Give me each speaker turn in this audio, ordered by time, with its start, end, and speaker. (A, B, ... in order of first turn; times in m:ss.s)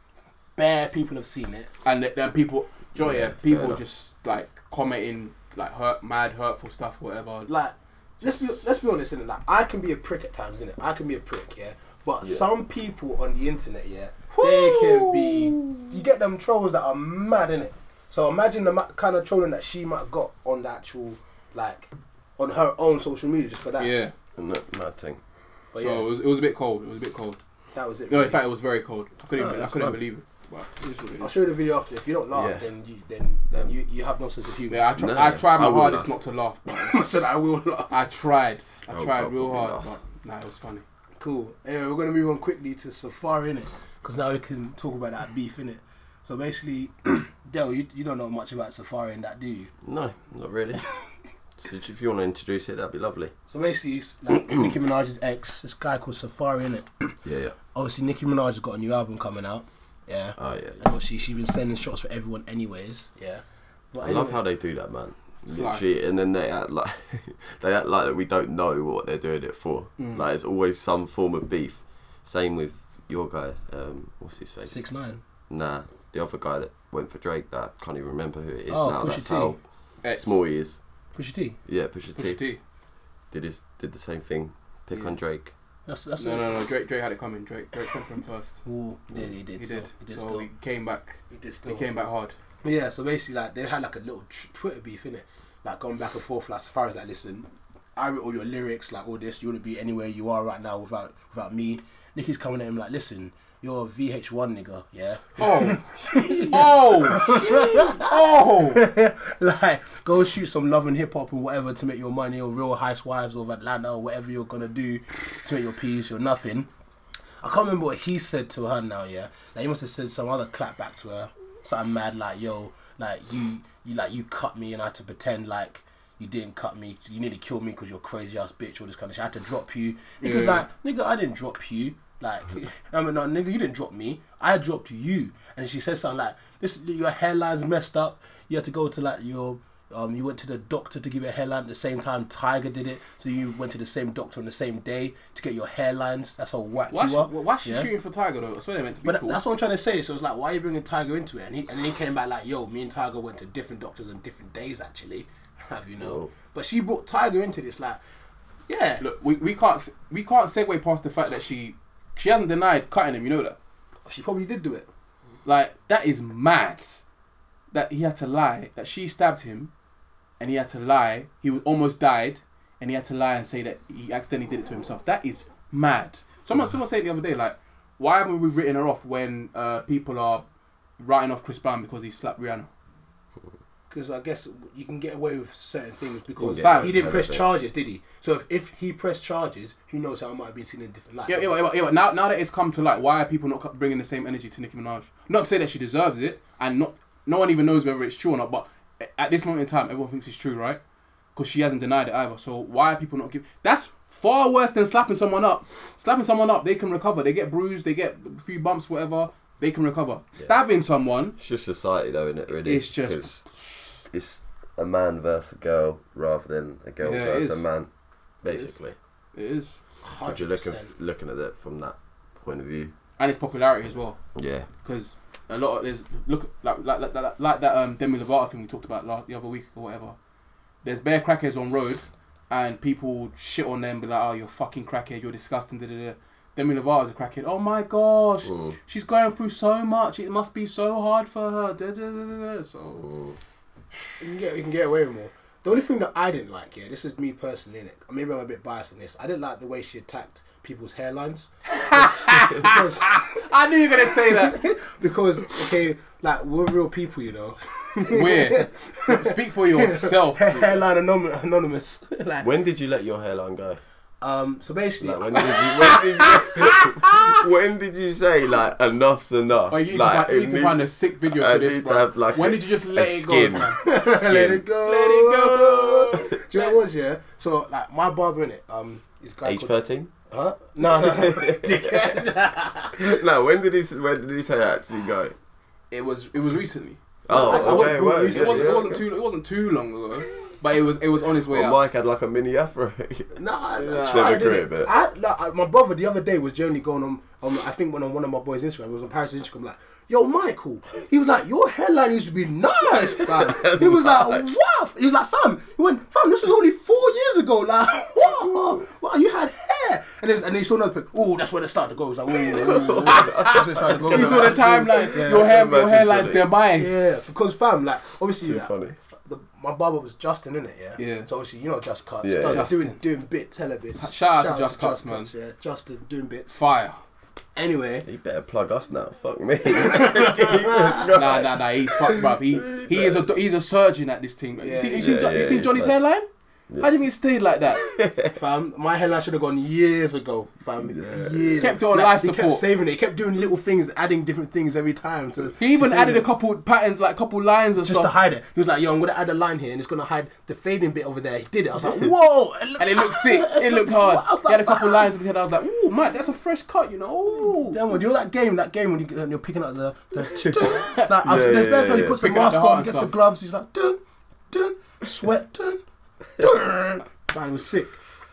0:00.6-0:01.7 A
0:01.8-0:07.5 B
0:03.0-0:03.8 C
0:07.5-0:23.9 A
0:14.3-0:16.0 B
0:23.8-0:24.1 B
0:24.4-0:25.2 C
0:25.7-0:26.0 A
0:25.8-0:27.4 B
0:27.7-0:28.4 A
0:28.1-0:31.3 B
0:29.4-0:30.0 C
0:31.2-0:34.8 A
0:32.3-0:32.6 C
0:34.7-0:37.1 B
0:35.0-0:36.1 C
0:36.7-0:37.9 A
0:37.9-0:40.8 B
0:38.9-0:39.9 C
0:41.2-0:49.7 A
0:49.8-0:50.8 C
0:51.6-0:53.3 C
0:53.5-0:57.1 A
0:57.2-0:57.6 C
0:57.7-1:04.4 A
1:00.4-1:01.0 C
1:04.0-1:14.8 C
1:05.5-1:05.8 B
1:10.0-1:10.2 B
1:14.6-1:15.2 A
1:15.5-1:19.6 C
1:18.7-1:19.6 A
1:20.0-1:20.4 B
1:20.1-1:20.8 C
1:21.2-1:21.6 A
1:21.6-1:22.4 C
1:22.1-1:22.6 B
1:23.3-1:25.5 C
1:25.9-1:26.6 A
1:26.2-1:28.6 B
1:28.6-1:30.5 A
1:29.6-1:32.3 B
1:31.3-1:31.9 A
1:32.6-1:56.7 A
1:45.4-1:48.8 B
1:57.4-2:27.9 A
2:10.2-2:10.6 B
2:26.9-2:29.4 B
2:29.0-2:38.0 A
2:36.0-2:36.3 C
2:38.7-2:39.0 A
2:39.0-2:43.6 B
2:44.0-2:44.9 A
2:45.4-2:47.0 B
2:47.7-2:49.7 B
2:50.4-3:00.4 B
3:01.0-3:02.7 B
3:03.9-3:11.5 A
3:06.4-3:07.5 C
3:06.5-3:07.0 B
3:11.3-3:20.8 B
3:21.4-3:31.4 B
3:31.4-3:33.4 C
3:32.6-3:33.5 B
3:34.1-3:37.9 C
3:37.0-3:37.6 B
3:38.4-3:39.0 C
3:39.3-3:39.8 B
3:40.0-3:40.9 A
3:40.2-3:42.9 C
3:43.2-3:44.2 B
3:44.3-3:44.7 C
3:44.8-3:50.1 B
3:50.8-4:03.1 B
3:58.4-3:58.8 C
4:03.0-4:03.4 C
4:04.2-4:22.5 A
4:11.7-4:14.6 B
4:18.1-4:20.8 B
4:22.4-4:23.8 C
4:24.2-4:26.8 A
4:25.0-4:34.6 C
4:25.3-4:27.4 B
4:29.7-4:33.8 B
4:33.6-4:39.7 A
4:34.8-4:36.8 B
4:39.4-4:40.1 C
4:40.3-4:43.2 A
4:40.8-4:42.2 C
4:43.0-4:45.4 C
4:45.9-4:51.8 B
4:47.3-4:49.0 C
4:47.3-4:49.0 A
4:51.5-4:53.3 C
4:53.3-5:15.5 A
4:53.8-4:54.5 B
4:54.0-4:54.9 C
5:03.2-5:04.4 C
5:08.5-5:08.8 C
5:12.4-5:16.4 C
5:13.1-5:17.3 B
5:16.7-5:18.7 A
5:18.4-5:19.0 C
5:19.2-5:26.6 A
5:21.0-5:21.3 B
5:22.2-5:22.7 C
5:22.4-5:22.9 B
5:24.0-5:25.3 B
5:26.6-5:27.0 B
5:27.6-5:28.1 A
5:28.0-5:33.3 C
5:29.8-5:31.2 A
5:31.1-5:36.3 B
5:34.6-5:35.2 A
5:34.9-5:35.9 C
5:36.8-5:37.8 B
5:37.7-5:38.3 C
5:38.3-5:46.3 A
5:40.8-5:41.7 C
5:41.6-5:42.6 B
5:45.6-5:48.1 B
5:47.8-5:55.1 A
5:52.8-5:57.8 B
5:57.6-6:04.0 A
6:00.4-6:02.2 C
6:02.2-6:03.1 B
6:04.5-6:05.8 A
6:06.4-6:08.0 A